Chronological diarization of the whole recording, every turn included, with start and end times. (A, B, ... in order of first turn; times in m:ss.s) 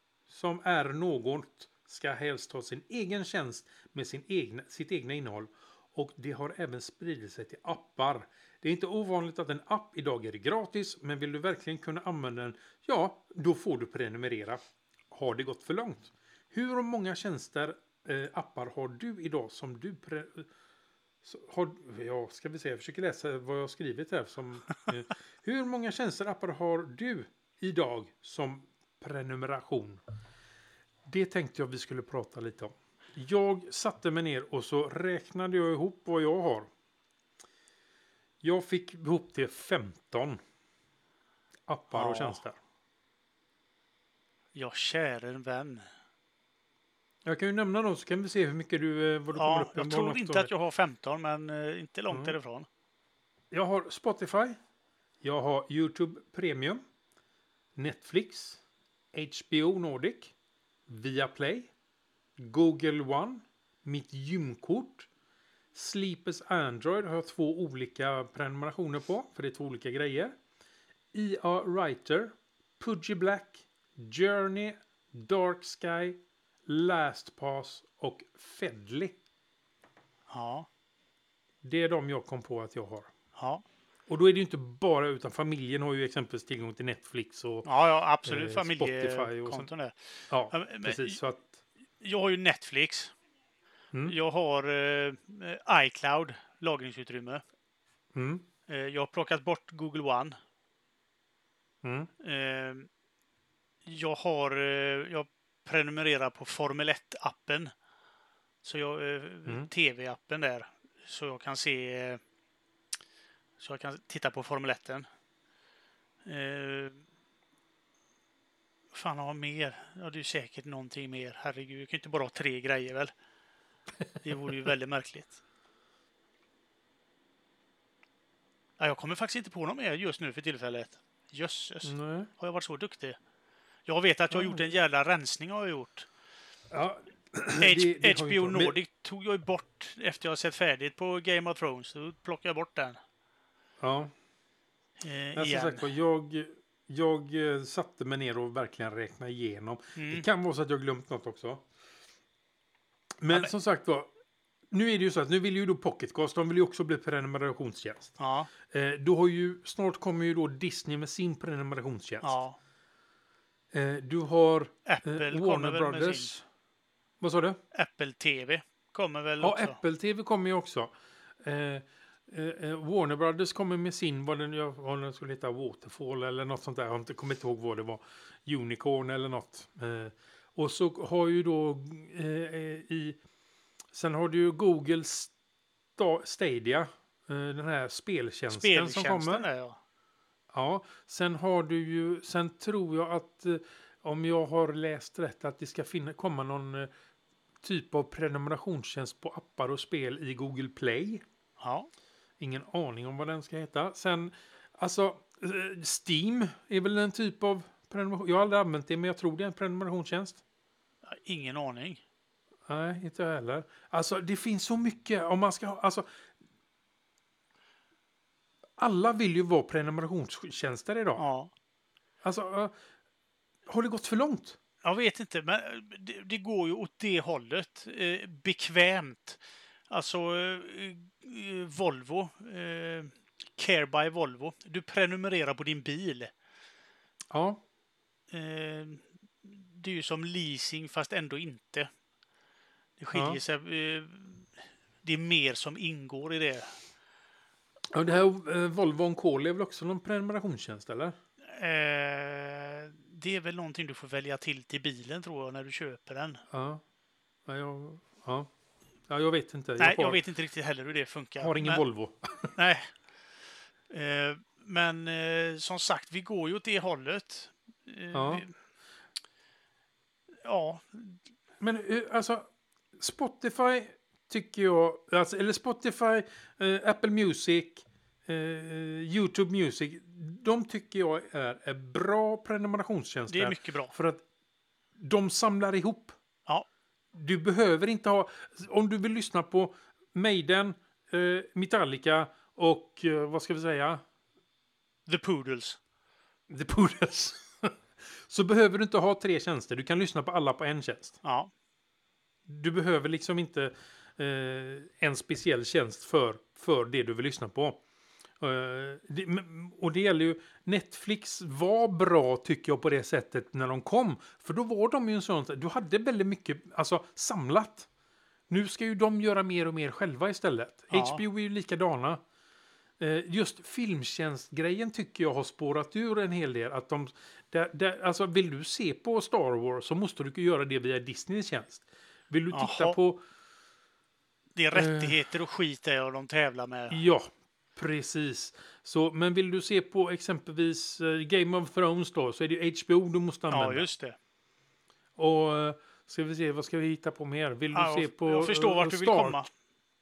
0:00.3-0:20.5 A
0:21.2-0:30.0 A
0:31.0-0:36.7 A
0:38.4-0:40.4 A
0:41.7-0:42.6 A
0:41.9-0:42.4 B
0:44.5-0:45.9 B
0:47.2-0:50.5 A
0:49.3-0:52.7 B
0:53.5-0:54.6 A
0:55.2-0:56.8 A
0:57.8-0:58.6 A
0:59.1-1:00.3 A
1:00.9-1:01.7 A
1:02.4-1:05.1 A
1:05.7-1:10.4 A
1:11.1-1:19.1 A
1:20.3-1:20.7 B
1:21.6-1:23.1 A
1:23.4-1:23.6 B
1:24.1-1:27.7 A
1:27.6-1:30.0 B
1:28.2-1:29.7 A
1:30.3-1:31.6 A
1:30.5-1:31.2 B
1:32.0-1:33.1 B
1:34.0-1:37.4 B
1:38.1-1:38.4 A
1:38.7-1:40.4 B
1:41.8-1:42.1 A
1:42.2-1:42.9 B
1:43.8-1:47.7 B
1:48.6-1:52.2 B
1:53.6-1:55.1 B
1:56.2-1:57.0 B
1:58.9-2:03.1 B
2:04.2-2:05.4 B
2:08.8-2:13.2 B
2:11.8-2:12.3 A
2:13.8-2:16.1 B
2:14.3-2:14.6 A
2:16.7-2:18.8 A
2:17.6-2:23.0 B
2:23.8-2:24.1 A
2:25.0-2:25.8 B
2:25.3-2:31.7 A
2:30.0-2:30.2 B
2:33.2-2:34.1 A
2:34.7-2:38.1 A
2:38.2-2:38.5 B
2:38.7-2:42.4 A
2:42.2-2:42.6 B
2:43.7-2:46.4 A
2:44.8-2:46.3 B
2:47.2-2:47.6 A
2:47.7-2:49.8 B
2:49.4-3:03.2 A
3:03.9-3:05.3 A
3:06.0-3:09.4 A
3:08.5-3:09.8 B
3:10.5-3:16.9 A
3:17.6-3:21.2 A
3:21.6-3:21.9 B
3:22.4-3:30.4 A
3:31.1-3:32.0 B
3:32.7-3:36.1 A
3:38.8-3:41.2 A
3:41.2-3:41.5 B
3:42.2-3:42.7 A
3:43.6-3:44.6 A
3:44.8-3:56.3 B
3:57.3-3:57.6 A
3:58.3-4:01.9 B
4:03.0-4:06.8 B
4:03.1-4:03.4 A
4:07.9-4:11.2 A
4:11.5-4:16.4 B
4:16.5-4:16.8 A
4:17.4-4:18.5 A
4:19.1-4:20.2 A
4:19.8-4:21.8 B
4:21.4-4:22.5 A
4:22.5-4:22.9 B
4:23.9-4:28.5 B
4:28.1-4:28.4 A
4:30.4-4:31.2 B
4:31.6-4:44.2 A
4:43.3-4:43.9 B
4:45.0-4:46.1 A
4:47.1-4:54.0 A
4:55.1-4:55.8 B
4:56.5-5:01.2 A
5:01.2-5:01.5 B
5:02.5-5:07.8 A
5:08.4-5:17.9 A
5:18.5-5:22.2 A
5:20.9-5:21.2 B
5:23.0-5:33.2 A
5:32.5-5:33.0 B
5:34.6-5:37.0 B
5:34.7-5:35.2 A
5:36.9-5:43.9 A
5:43.5-5:44.2 B
5:45.2-5:49.4 A
5:47.7-5:49.5 B